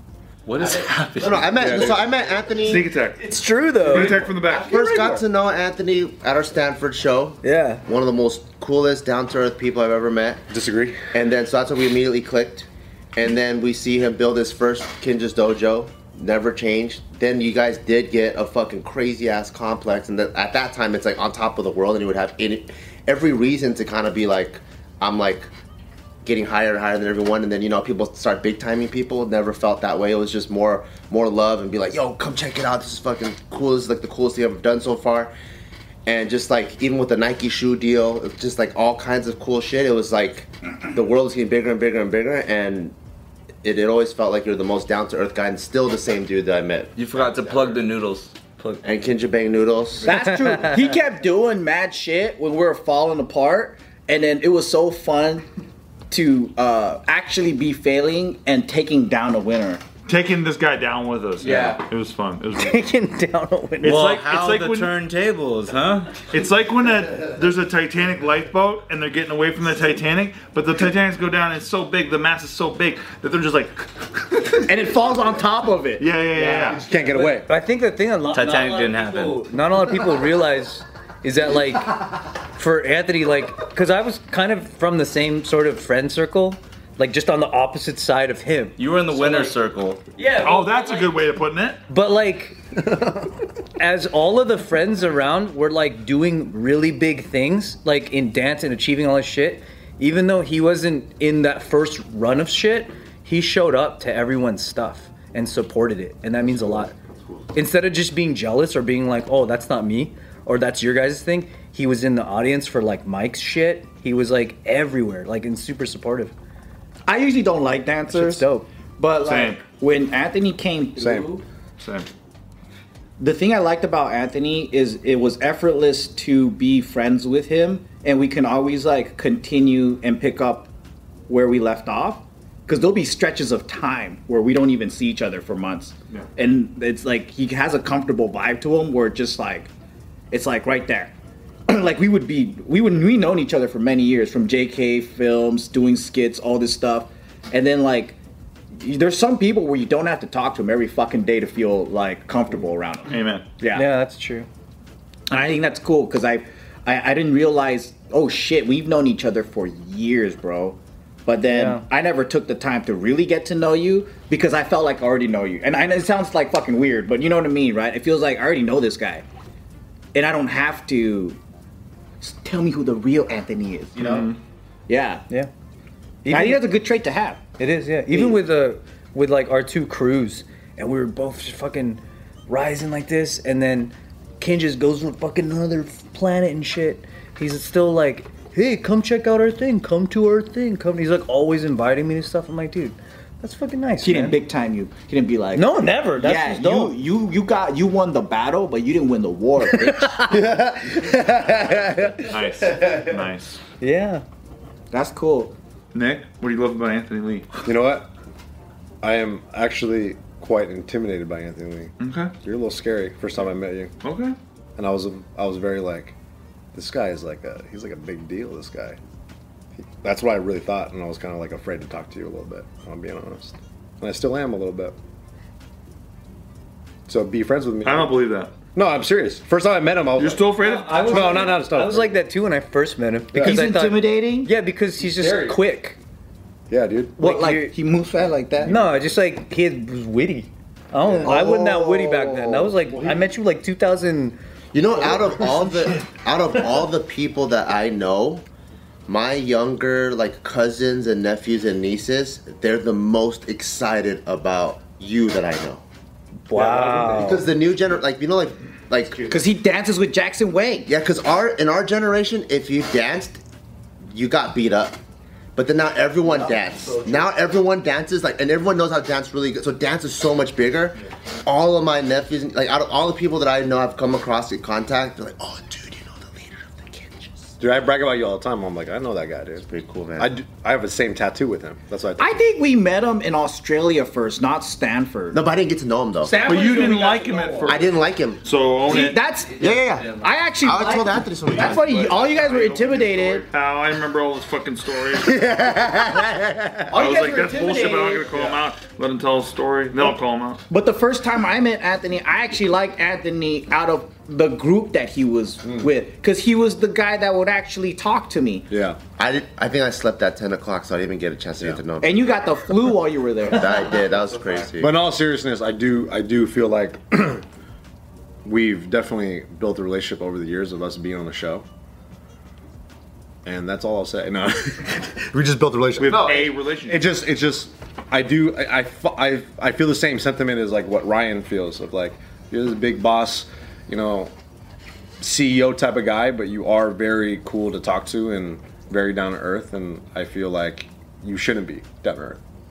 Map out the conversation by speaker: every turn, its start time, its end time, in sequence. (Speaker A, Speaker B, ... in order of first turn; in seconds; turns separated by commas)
Speaker A: 0.5-1.8, Speaker B: 1.2-2.9, Speaker C: 1.6-2.0, Speaker D: 2.6-3.2, Speaker E: 3.2-4.3, Speaker D: 3.8-4.7, Speaker F: 3.9-5.2, Speaker B: 4.5-10.4, Speaker E: 7.4-7.8, Speaker C: 10.5-11.0, Speaker B: 11.1-25.5, Speaker B: 26.2-35.3, Speaker B: 36.0-42.9, Speaker B: 43.6-47.8, Speaker A: 47.0-48.8, Speaker B: 48.8-50.1, Speaker F: 50.0-55.5, Speaker E: 50.0-50.9, Speaker F: 56.1-59.8, Speaker D: 60.0-62.8, Speaker F: 61.4-61.8, Speaker E: 62.5-64.0, Speaker D: 63.8-64.9, Speaker A: 63.8-66.2, Speaker D: 66.3-74.7, Speaker F: 74.7-76.8, Speaker D: 76.0-76.8, Speaker C: 76.7-77.5, Speaker E: 77.1-89.5, Speaker A: 78.3-79.5, Speaker A: 88.8-90.0, Speaker E: 90.2-91.2, Speaker D: 90.4-91.8, Speaker E: 91.9-92.6, Speaker E: 93.8-106.9, Speaker C: 106.5-106.9, Speaker E: 107.5-116.3, Speaker F: 117.1-118.5, Speaker E: 118.1-118.7, Speaker F: 119.0-121.4, Speaker D: 119.2-119.7, Speaker C: 121.0-121.3, Speaker D: 121.8-122.1, Speaker F: 123.2-130.7, Speaker F: 131.3-139.7, Speaker F: 140.3-141.1, Speaker F: 141.7-148.2, Speaker F: 148.7-153.9, Speaker D: 153.1-153.5, Speaker E: 153.7-154.5, Speaker F: 155.3-169.2, Speaker E: 161.5-161.8, Speaker F: 170.1-171.4, Speaker F: 172.2-174.3, Speaker D: 174.0-174.4, Speaker F: 174.9-175.2, Speaker E: 176.2-176.7, Speaker F: 176.3-177.4, Speaker E: 177.6-194.4, Speaker F: 178.1-178.4, Speaker F: 194.0-200.2, Speaker E: 195.5-196.9, Speaker E: 199.8-200.3, Speaker C: 200.3-203.1, Speaker D: 202.2-203.6, Speaker E: 203.8-204.2, Speaker F: 204.9-205.5, Speaker D: 205.9-207.6, Speaker C: 207.6-208.1, Speaker C: 209.0-213.9, Speaker D: 212.0-212.3, Speaker D: 214.0-214.3, Speaker C: 214.8-216.1, Speaker C: 216.7-219.0, Speaker C: 219.8-224.9, Speaker C: 227.1-228.2, Speaker D: 227.8-228.5, Speaker C: 228.7-232.2, Speaker D: 230.2-231.5, Speaker E: 230.6-236.0, Speaker F: 233.3-234.5, Speaker F: 235.2-235.5, Speaker C: 236.7-237.2, Speaker F: 237.2-238.7, Speaker E: 237.2-237.8, Speaker E: 238.6-244.4, Speaker C: 241.0-241.6, Speaker F: 241.2-242.7, Speaker C: 242.9-243.2, Speaker B: 244.7-248.4, Speaker B: 249.1-255.8, Speaker E: 256.5-257.5, Speaker F: 256.5-257.2, Speaker B: 257.1-259.4, Speaker F: 259.2-260.9, Speaker B: 260.9-263.4, Speaker B: 264.1-265.0, Speaker B: 265.6-277.6, Speaker F: 266.4-267.1, Speaker C: 277.6-279.6, Speaker B: 279.6-280.3, Speaker C: 280.2-282.4, Speaker F: 282.2-285.4, Speaker B: 285.3-286.5, Speaker F: 286.2-287.8, Speaker D: 286.4-289.2, Speaker B: 287.6-288.4, Speaker F: 288.8-293.5, Speaker B: 289.6-292.1, Speaker D: 291.6-295.4, Speaker B: 295.3-296.5, Speaker C: 295.3-296.8, Speaker F: 296.9-298.6, Speaker D: 296.9-300.6, Speaker F: 300.7-308.7, Speaker C: 305.6-305.9, Speaker C: 308.7-309.0, Speaker B: 309.2-312.4, Speaker F: 312.0-313.8, Speaker B: 313.5-314.9, Speaker C: 314.8-317.4, Speaker C: 318.4-321.6, Speaker C: 323.4-334.3, Speaker D: 326.0-327.0, Speaker C: 335.2-342.4